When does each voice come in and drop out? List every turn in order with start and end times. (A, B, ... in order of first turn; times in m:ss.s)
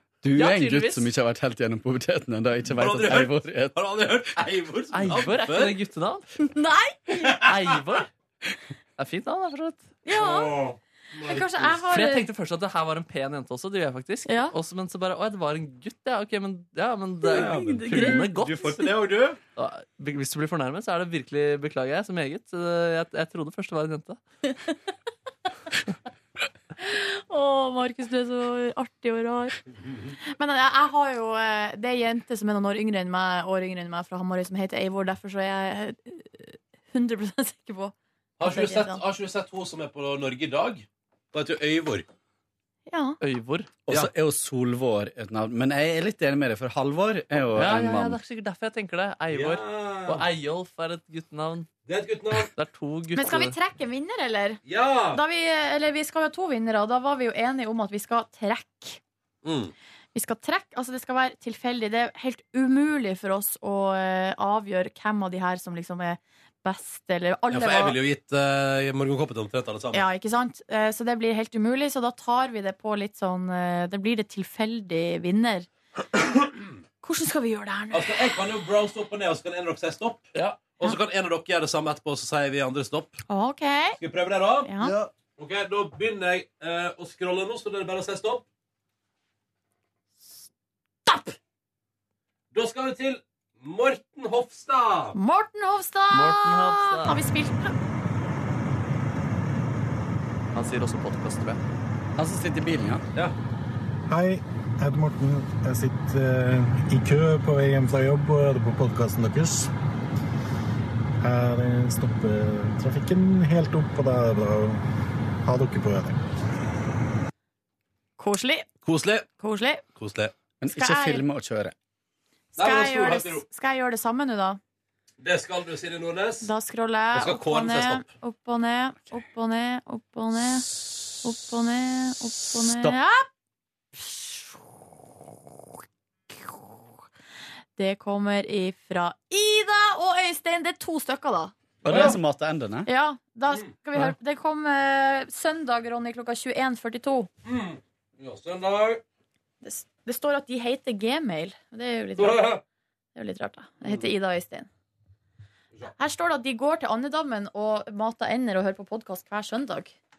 0:00.2-0:03.8 A
0:00.4-0:01.1 B
0:02.8-0:05.8 C
0:04.9-0:06.3 B
0:06.5-0:07.4 D
0:07.2-0:07.6 C
0:07.4-0:08.1 B
0:09.0-0:09.9 B
0:10.0-0:10.6 D
0:10.1-0:11.8 C
0:11.3-0:12.3 D
0:11.9-0:18.8 B
0:14.3-0:14.5 D
0:17.3-0:18.3 D
0:17.3-0:19.4 C
0:19.6-0:24.2 B
0:26.8-0:29.6 D
0:30.3-0:39.0 D
0:38.4-0:42.1 C
0:42.9-0:43.2 D
0:43.2-0:43.7 B
0:43.9-0:48.2 A
0:47.5-0:51.7 B
0:49.3-0:50.2 C
0:51.9-0:52.5 C
0:52.5-0:53.6 B
0:53.2-0:54.6 D
0:54.6-0:55.2 C
0:55.1-0:59.0 D
0:59.4-0:59.7 C
1:00.2-1:08.0 D
1:07.5-1:10.1 C
1:09.9-1:15.7 D
1:16.2-1:16.7 C
1:17.0-1:18.4 D
1:17.9-1:23.2 C
1:23.3-1:24.0 D
1:24.0-1:24.7 C
1:24.6-1:24.9 D
1:25.4-1:28.4 C
1:31.1-1:31.3 D
1:32.5-1:35.2 C
1:35.2-1:37.8 D
1:36.1-1:37.2 B
1:40.5-1:41.6 B
1:42.2-1:43.0 A
1:44.1-1:49.7 E
1:51.2-1:54.8 E
1:55.4-1:56.2 E
1:58.2-1:58.7 D
1:58.8-1:59.3 C
1:59.4-1:59.8 D
2:00.0-2:00.3 C
2:00.6-2:01.7 A
2:00.7-2:01.2 D
2:02.6-2:04.6 D
2:02.6-2:03.4 C
2:05.2-2:06.5 C
2:06.4-2:13.3 D
2:07.1-2:08.1 C
2:12.6-2:13.0 A
2:14.0-2:14.6 D
2:17.8-2:22.2 D
2:21.8-2:22.9 A
2:22.9-2:27.3 D
2:27.4-2:29.0 C
2:29.6-2:32.5 D
2:32.2-2:32.6 C
2:33.2-2:34.7 D
2:36.0-2:40.0 D